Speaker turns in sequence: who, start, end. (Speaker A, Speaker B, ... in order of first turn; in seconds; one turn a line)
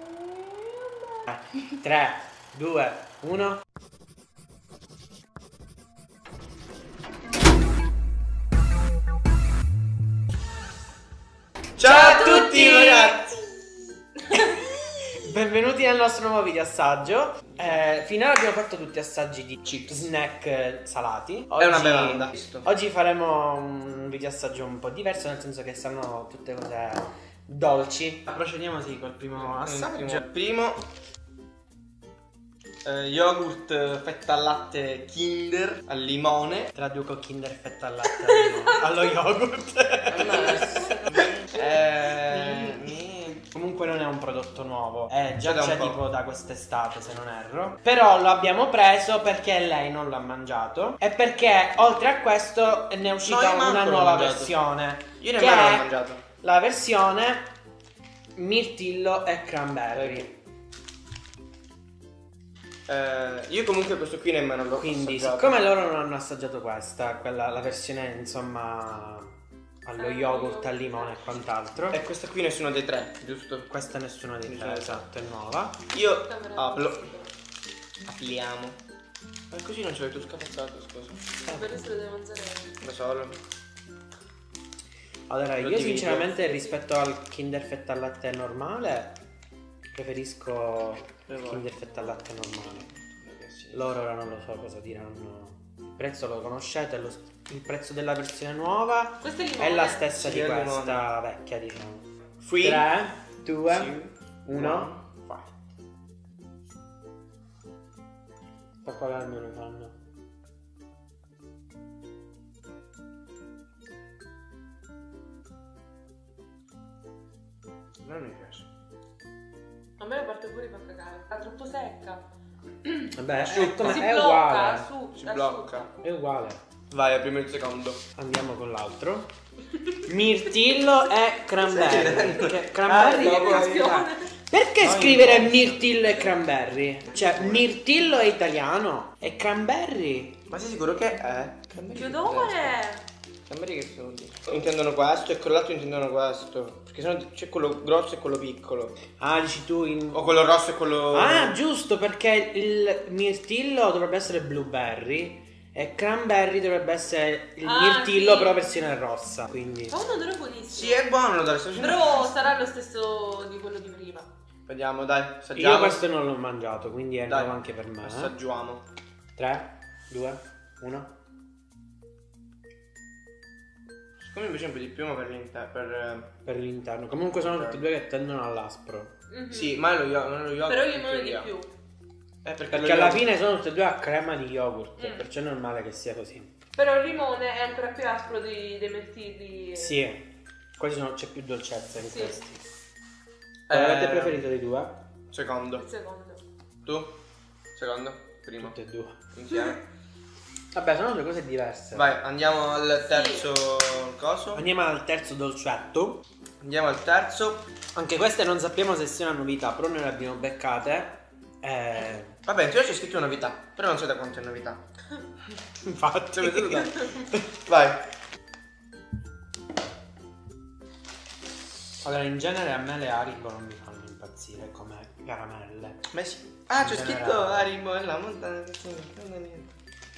Speaker A: 1.3-3.6
Speaker B: 11.8-13.3
Speaker C: 11.8-13.0
Speaker A: 15.1-30.2
Speaker B: 19.6-20.1
Speaker B: 21.6-22.7
Speaker B: 29.4-30.8
Speaker B: 32.8-36.7
Speaker A: 36.7-41.0
Speaker C: 38.4-38.8
Speaker B: 40.1-43.4
Speaker C: 40.5-40.9
Speaker A: 42.2-42.9
Speaker A: 43.5-55.9
Speaker B: 45.4-46.0
Speaker B: 53.2-54.5
Speaker B: 55.2-56.2
Speaker A: 56.4-57.5
Speaker A: 58.4-60.3
Speaker B: 60.0-60.2
Speaker B: 62.9-65.6
Speaker A: 64.7-69.3
Speaker A: 69.8-72.0
Speaker C: 70.0-71.2
Speaker B: 71.9-73.7
Speaker A: 73.7-75.8
Speaker B: 74.4-75.0
Speaker B: 75.9-77.0
Speaker C: 76.2-77.3
Speaker B: 78.0-78.8
Speaker B: 79.5-81.6
Speaker C: 81.4-82.7
Speaker B: 82.8-83.4
Speaker A: 85.3-89.2
Speaker B: 85.6-86.6
Speaker A: 89.9-92.9
Speaker B: 91.3-91.7
Speaker B: 93.1-93.9
Speaker A: 93.7-102.0
Speaker C: 99.2-100.1
Speaker B: 100.1-101.0
Speaker B: 102.4-102.9
Speaker A: 102.6-104.9
Speaker B: 103.7-105.5
Speaker A: 108.8-109.9
Speaker B: 118.0-118.6
Speaker C: 120.0-122.2
Speaker C: 122.8-125.8
Speaker A: 123.1-124.9
Speaker B: 123.4-124.0
Speaker B: 125.1-125.9
Speaker A: 126.0-126.6
Speaker B: 126.9-128.0
Speaker A: 128.2-129.3
Speaker A: 130.1-133.9
Speaker B: 131.7-134.1
Speaker C: 133.1-134.3
Speaker A: 134.5-140.3
Speaker B: 134.8-135.9
Speaker B: 137.1-137.7
Speaker B: 140.5-142.7
Speaker C: 141.9-143.0
Speaker B: 143.5-148.9
Speaker A: 149.2-150.3
Speaker B: 150.1-151.6
Speaker A: 151.1-159.9
Speaker C: 157.6-158.6
Speaker C: 159.9-161.0
Speaker B: 160.7-162.3
Speaker C: 161.8-164.3
Speaker B: 164.7-166.0
Speaker A: 165.6-168.3
Speaker B: 167.3-168.8
Speaker A: 169.3-171.1
Speaker B: 174.2-176.3
Speaker A: 176.4-179.1
Speaker B: 177.4-177.8
Speaker C: 179.3-179.8
Speaker B: 179.5-181.5
Speaker C: 180.7-181.7
Speaker B: 182.4-183.2
Speaker A: 182.7-186.5
Speaker C: 185.0-185.3
Speaker C: 186.8-190.0
Speaker A: 189.7-190.2
Speaker A: 190.8-192.6
Speaker C: 192.0-192.3
Speaker B: 193.7-194.4
Speaker A: 193.7-194.9
Speaker B: 195.3-195.8
Speaker C: 195.8-196.4
Speaker B: 196.8-197.1
Speaker B: 197.7-198.7
Speaker A: 198.6-199.2
Speaker B: 199.3-199.8
Speaker A: 200.7-202.0
Speaker B: 201.9-204.6
Speaker C: 203.0-203.5
Speaker A: 204.5-206.2
Speaker B: 206.6-207.7
Speaker A: 207.9-212.4
Speaker B: 212.4-214.8
Speaker A: 215.8-217.4
Speaker B: 216.3-217.0
Speaker B: 217.6-218.0
Speaker A: 222.0-226.0
Speaker B: 226.1-229.7
Speaker A: 226.8-227.7